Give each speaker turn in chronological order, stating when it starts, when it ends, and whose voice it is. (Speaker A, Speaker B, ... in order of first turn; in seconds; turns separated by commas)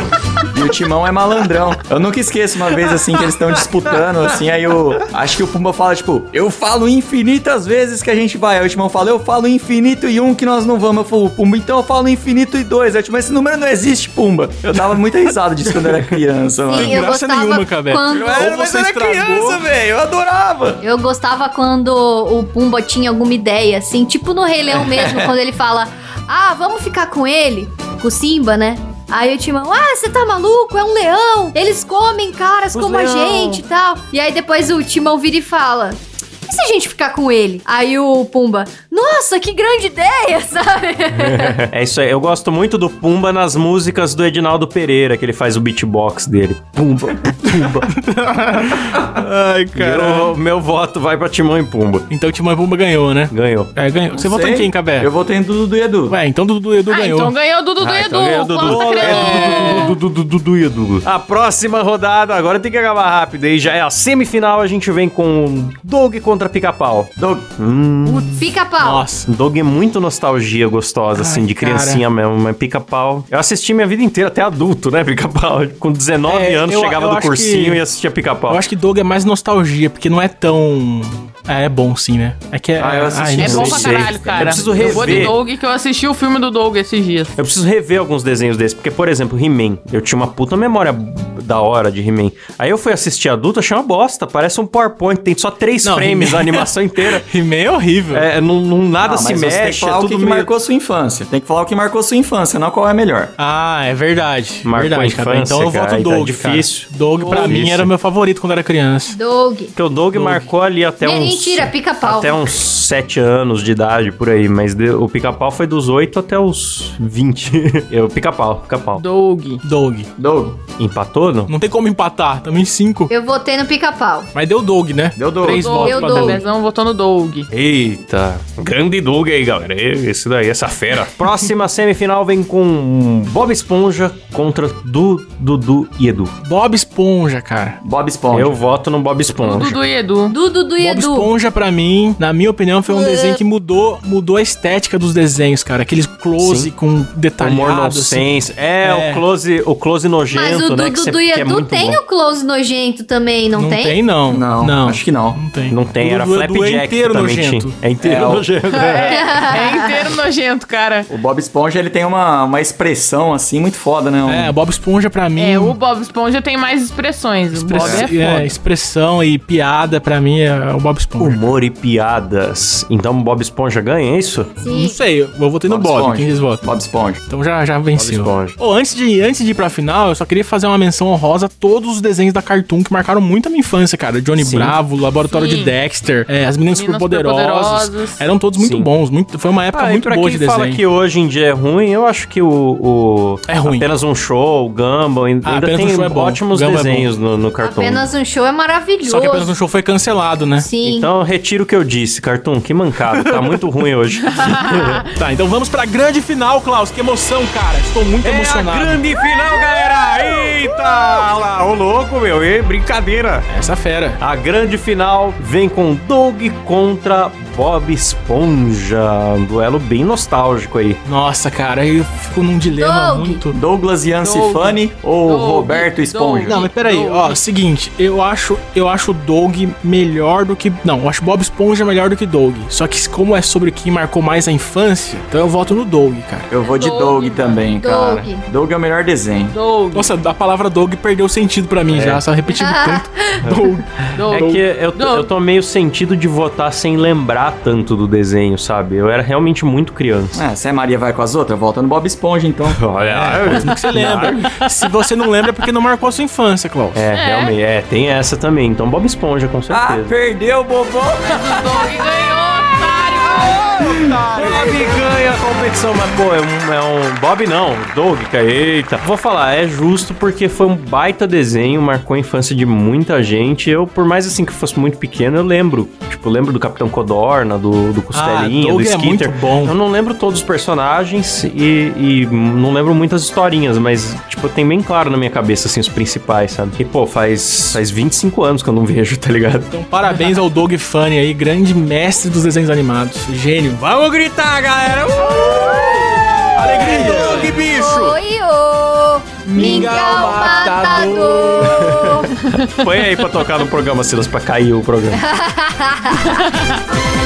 Speaker A: 0.5-17.0, Speaker B: 16.7-18.5, Speaker C: 16.7-19.6, Speaker A: 18.1-20.8, Speaker B: 20.8-41.6, Speaker A: 24.8-25.3, Speaker D: 32.7-33.6, Speaker D: 41.1-48.0, Speaker C: 47.9-50.3, Speaker D: 49.8-52.1, Speaker C: 52.1-55.1, Speaker D: 53.3-53.7, Speaker A: 54.1-56.2, Speaker C: 56.1-57.3, Speaker E: 56.9-60.0, Speaker D: 57.8-68.3, Speaker C: 58.7-59.9, Speaker A: 67.2-67.5, Speaker B: 68.1-69.1, Speaker C: 68.8-69.3, Speaker D: 69.3-78.6, Speaker C: 71.1-72.0, Speaker C: 76.3-77.8, Speaker C: 78.5-83.8, Speaker A: 82.8-85.3, Speaker E: 83.4-87.4, Speaker D: 83.4-85.4, Speaker C: 84.9-85.2, Speaker D: 87.4-97.3, Speaker C: 95.8-96.7, Speaker C: 97.2-98.3, Speaker D: 98.1-100.5, Speaker A: 99.0-103.3, Speaker C: 103.4-109.2, Speaker D: 104.7-107.9, Speaker B: 109.1-109.7, Speaker D: 109.8-119.0, Speaker C: 110.1-110.5, Speaker B: 111.0-112.6, Speaker E: 119.0-119.6, Speaker C: 119.6-120.1, Speaker A: 120.2-120.6, Speaker D: 120.8-121.5, Speaker C: 121.5-123.1, Speaker B: 123.1-124.3, Speaker C: 124.3-126.4, Speaker A: 125.2-125.8, Speaker E: 125.4-127.5, Speaker B: 125.8-126.4, Speaker D: 127.5-136.3, Speaker C: 136.4-137.8, Speaker A: 137.8-138.6, Speaker D: 138.3-139.8, Speaker E: 139.4-140.4, Speaker B: 140.3-141.3, Speaker C: 140.8-148.3, Speaker B: 143.1-143.3, Speaker D: 146.4-146.7, Speaker D: 147.4-152.0, Speaker C: 148.8-149.2, Speaker B: 150.3-154.0, Speaker C: 153.6-157.8, Speaker A: 154.3-155.4, Speaker D: 155.7-159.4, Speaker A: 158.0-158.5, Speaker E: 158.7-161.1, Speaker B: 159.1-160.0, Speaker A: 161.1-164.5, Speaker C: 164.3-165.8, Speaker E: 165.4-168.5, Speaker C: 167.5-171.4, Speaker D: 171.2-174.5, Speaker B: 174.6-175.0, Speaker C: 174.7-176.6, Speaker A: 175.7-177.2, Speaker C: 177.3-190.8, Speaker D: 178.0-178.6, Speaker D: 184.4-184.8, Speaker E: 185.3-185.8, Speaker E: 186.7-188.2, Speaker D: 188.6-188.9, Speaker D: 189.7-198.1, Speaker C: 193.5-193.9, Speaker C: 195.4-197.1, Speaker B: 197.6-199.5, Speaker C: 199.0-200.7, Speaker B: 200.6-201.1, Speaker D: 200.8-205.0, Speaker C: 203.2-203.6, Speaker E: 204.3-205.1, Speaker C: 205.2-209.0, Speaker D: 208.2-213.5, Speaker C: 213.5-214.2, Speaker D: 214.2-221.0, Speaker C: 221.1-223.6, Speaker B: 222.8-223.4, Speaker A: 223.5-226.6, Speaker E: 224.2-227.4, Speaker C: 226.5-236.5, Speaker A: 236.5-239.6, Speaker E: 236.6-237.6, Speaker B: 237.8-238.4, Speaker E: 239.5-240.1, Speaker C: 239.9-244.6, Speaker D: 241.9-242.2, Speaker B: 242.5-243.5, Speaker E: 244.2-245.3, Speaker D: 244.3-250.4, Speaker A: 250.3-252.9, Speaker D: 252.7-254.6, Speaker C: 253.0-257.0, Speaker D: 256.9-260.1, Speaker E: 257.1-257.5, Speaker A: 259.7-261.9, Speaker E: 261.2-263.7, Speaker A: 263.5-264.0, Speaker C: 263.9-264.8, Speaker D: 264.3-289.7, Speaker C: 278.1-279.8, Speaker C: 289.7-293.8, Speaker D: 293.8-298.2, Speaker C: 296.6-297.6, Speaker B: 297.2-302.3, Speaker C: 299.4-302.1, Speaker D: 299.6-300.1, Speaker D: 301.6-305.2, Speaker B: 305.2-306.4, Speaker E: 306.4-306.7